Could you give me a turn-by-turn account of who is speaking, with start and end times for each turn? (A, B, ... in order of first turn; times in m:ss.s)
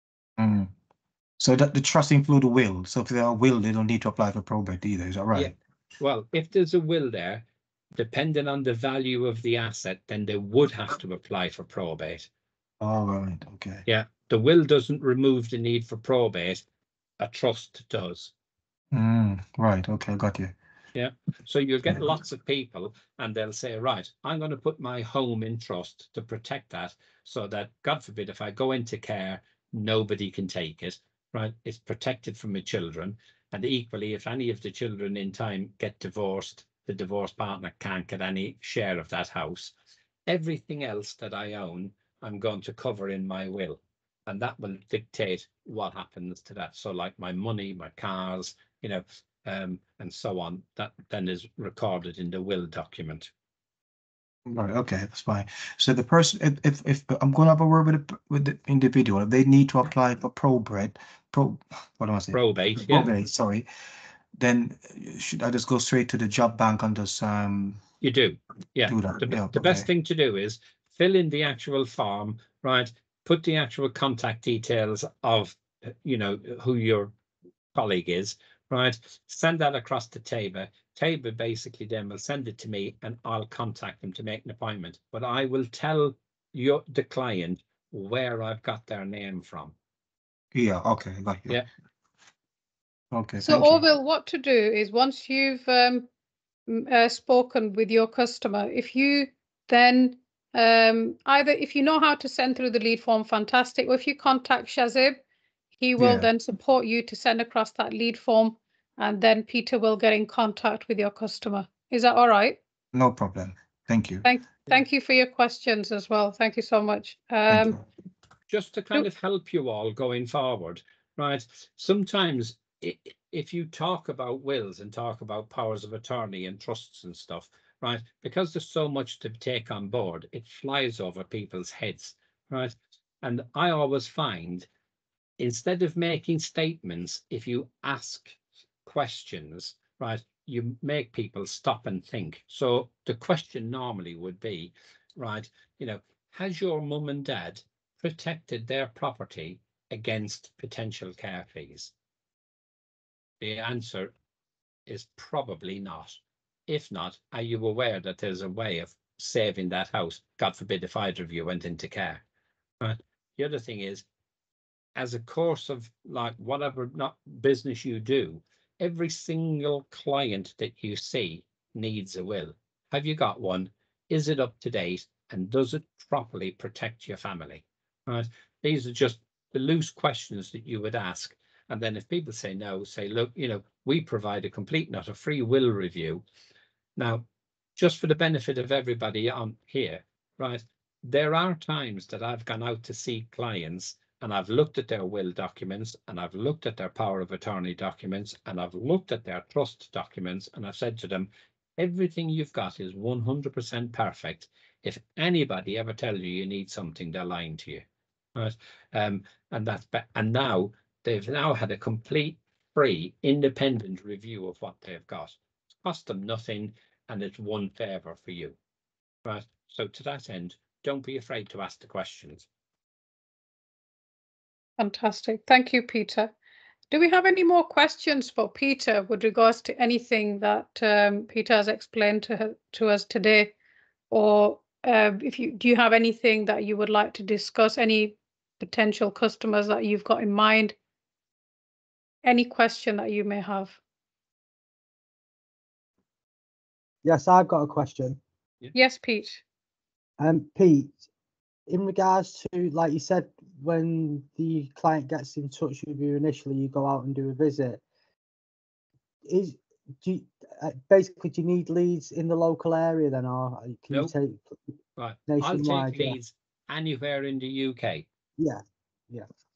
0:00.4-0:00.7 A
0:01.4-0:05.5 A
0:05.4-0:12.3 B
0:12.8-0:13.8 A
0:13.9-0:16.6 B
0:17.2-0:18.3 B
0:18.9-0:20.5 A
0:21.0-0:39.7 B
0:40.3-0:53.3 B
0:54.5-1:03.7 A
1:02.3-1:03.1 B
1:04.4-1:07.8 A
1:08.0-1:17.1 B
1:08.9-1:09.9 A
1:17.7-1:29.8 B
1:30.5-1:31.6 A
1:33.1-1:33.8 A
1:33.4-1:36.1 C
1:36.7-1:45.2 C
1:45.8-1:52.6 C
1:46.0-1:46.3 A
1:52.9-1:54.3 A
1:54.2-1:57.8 C
1:57.5-1:57.8 A
1:58.5-2:14.7 B
2:15.4-2:31.9 B
2:33.4-2:34.1 B
2:34.9-2:42.2 B
2:42.8-2:44.0 B
2:45.0-3:06.2 B
3:07.0-3:07.2 B
3:07.8-3:38.6 B
3:39.2-3:42.5 B
3:44.8-3:46.3 C
3:46.9-3:53.5 C
3:54.1-4:00.8 C
4:02.2-4:03.8 C
4:07.0-4:08.2 D
4:08.7-4:09.4 C
4:10.2-4:11.0 D
4:11.7-4:17.8 D
4:19.3-4:24.6 D
4:25.0-4:28.1 B
4:25.3-4:26.2 D
4:28.4-4:29.3 D